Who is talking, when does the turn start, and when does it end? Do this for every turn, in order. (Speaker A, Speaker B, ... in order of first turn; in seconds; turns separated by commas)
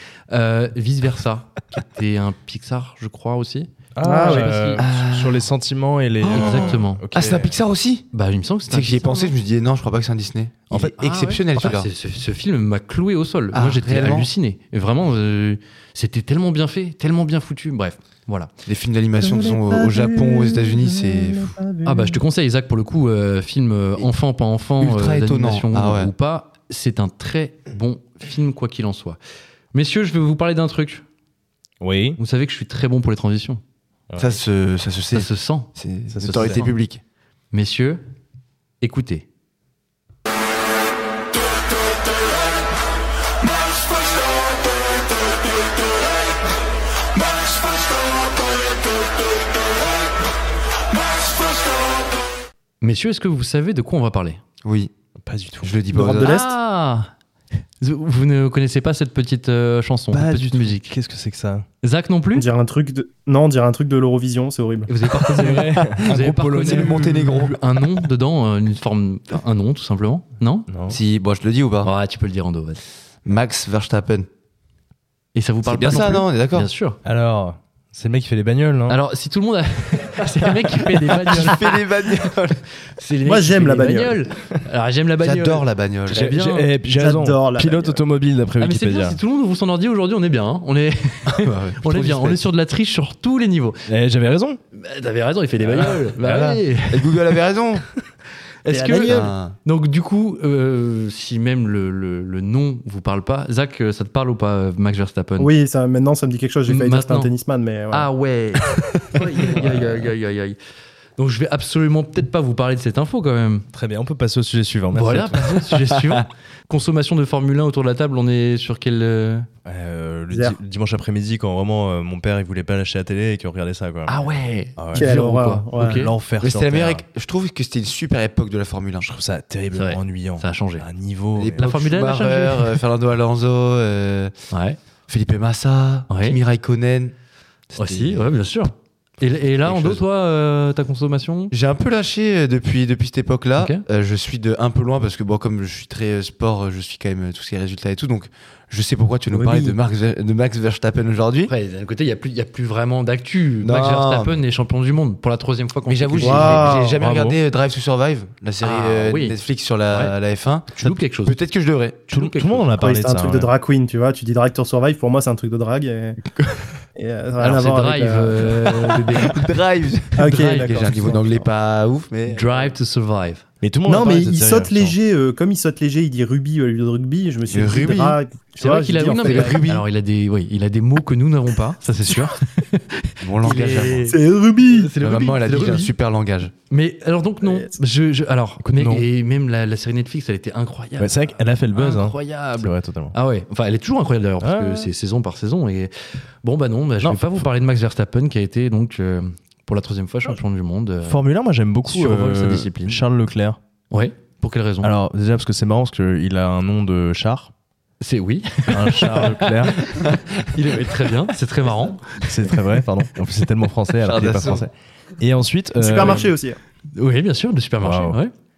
Speaker A: 0.3-4.8, Speaker B: 3.9-7.6, Speaker C: 4.0-4.5, Speaker D: 4.8-5.5, Speaker D: 6.2-8.1, Speaker A: 6.3-7.0, Speaker A: 8.1-9.3, Speaker D: 8.7-11.9, Speaker A: 11.0-18.5, Speaker D: 13.5-14.3, Speaker D: 18.7-21.6, Speaker C: 19.2-22.2, Speaker A: 21.8-29.2, Speaker D: 24.8-26.1, Speaker A: 29.7-31.0, Speaker B: 31.8-32.2, Speaker A: 32.2-33.6, Speaker B: 34.1-34.4, Speaker D: 34.2-37.0, Speaker A: 35.1-35.7, Speaker B: 36.1-36.7, Speaker A: 36.4-36.7, Speaker A: 37.5-38.0, Speaker A: 38.8-39.2, Speaker A: 52.8-54.4, Speaker D: 54.6-54.9, Speaker B: 55.2-55.8, Speaker D: 55.6-56.4, Speaker C: 55.9-56.5, Speaker A: 56.1-57.1, Speaker A: 57.8-60.9, Speaker B: 60.1-61.7, Speaker A: 61.8-62.5, Speaker C: 62.4-64.9, Speaker A: 64.9-70.7, Speaker B: 65.3-67.5, Speaker D: 66.1-67.6, Speaker B: 70.7-71.0, Speaker D: 70.9-71.9, Speaker A: 71.8-72.8, Speaker D: 73.3-74.3, Speaker A: 75.3-77.0, Speaker D: 75.7-76.7, Speaker B: 77.0-79.0, Speaker A: 78.9-81.7, Speaker D: 81.3-82.6, Speaker A: 82.9-86.7, Speaker C: 83.3-84.2, Speaker D: 85.2-86.2, Speaker B: 86.1-89.2, Speaker C: 87.0-88.0, Speaker A: 88.6-93.8, Speaker D: 91.3-92.4, Speaker B: 93.9-94.6, Speaker A: 94.7-97.1, Speaker B: 95.6-96.6, Speaker D: 96.9-97.9, Speaker A: 98.6-105.5, Speaker C: 98.7-99.3, Speaker D: 99.0-99.6, Speaker C: 105.4-108.1, Speaker A: 106.7-107.3, Speaker A: 107.9-110.6, Speaker B: 109.6-109.9, Speaker A: 111.2-113.7, Speaker B: 113.7-115.7, Speaker A: 114.9-119.5, Speaker B: 119.7-124.2, Speaker C: 120.3-120.6, Speaker A: 124.1-126.1, Speaker B: 124.8-125.1, Speaker C: 124.9-126.1, Speaker B: 125.8-127.0, Speaker D: 126.4-129.1, Speaker B: 129.0-131.7, Speaker A: 129.7-130.8, Speaker D: 131.4-134.3, Speaker A: 131.6-132.8, Speaker A: 134.5-134.8, Speaker D: 135.1-137.1, Speaker A: 136.1-136.4, Speaker D: 137.7-138.3, Speaker A: 137.8-141.5, Speaker D: 139.6-140.0, Speaker D: 141.5-151.5, Speaker A: 143.6-143.8, Speaker C: 149.3-149.8, Speaker A: 151.5-156.7, Speaker D: 153.6-154.4, Speaker D: 155.9-162.1, Speaker C: 156.2-157.0, Speaker B: 157.0-157.4, Speaker A: 158.6-159.4, Speaker A: 160.7-161.4, Speaker A: 162.1-162.7, Speaker B: 162.1-163.5, Speaker C: 162.8-166.2, Speaker C: 167.0-169.0, Speaker A: 167.4-169.4, Speaker D: 169.2-172.7, Speaker C: 170.2-171.4, Speaker A: 170.2-171.2, Speaker A: 172.3-173.4, Speaker B: 173.6-175.0, Speaker C: 173.9-179.6, Speaker D: 177.5-178.2, Speaker A: 178.6-185.9, Speaker D: 179.2-179.8, Speaker D: 183.2-184.1, Speaker C: 184.1-184.9, Speaker D: 185.0-186.5, Speaker A: 186.7-195.9, Speaker C: 187.4-187.7, Speaker B: 188.6-189.1, Speaker B: 191.0-193.2, Speaker B: 194.4-194.9, Speaker A: 196.4-201.2, Speaker B: 197.0-197.4, Speaker B: 201.0-203.6, Speaker A: 201.8-203.0, Speaker A: 203.9-204.9, Speaker B: 204.8-207.5, Speaker A: 208.0-212.5, Speaker B: 208.7-209.8, Speaker D: 210.0-210.5, Speaker B: 212.2-216.3, Speaker D: 214.0-214.7, Speaker C: 215.8-216.6, Speaker A: 216.9-218.3, Speaker B: 217.8-218.2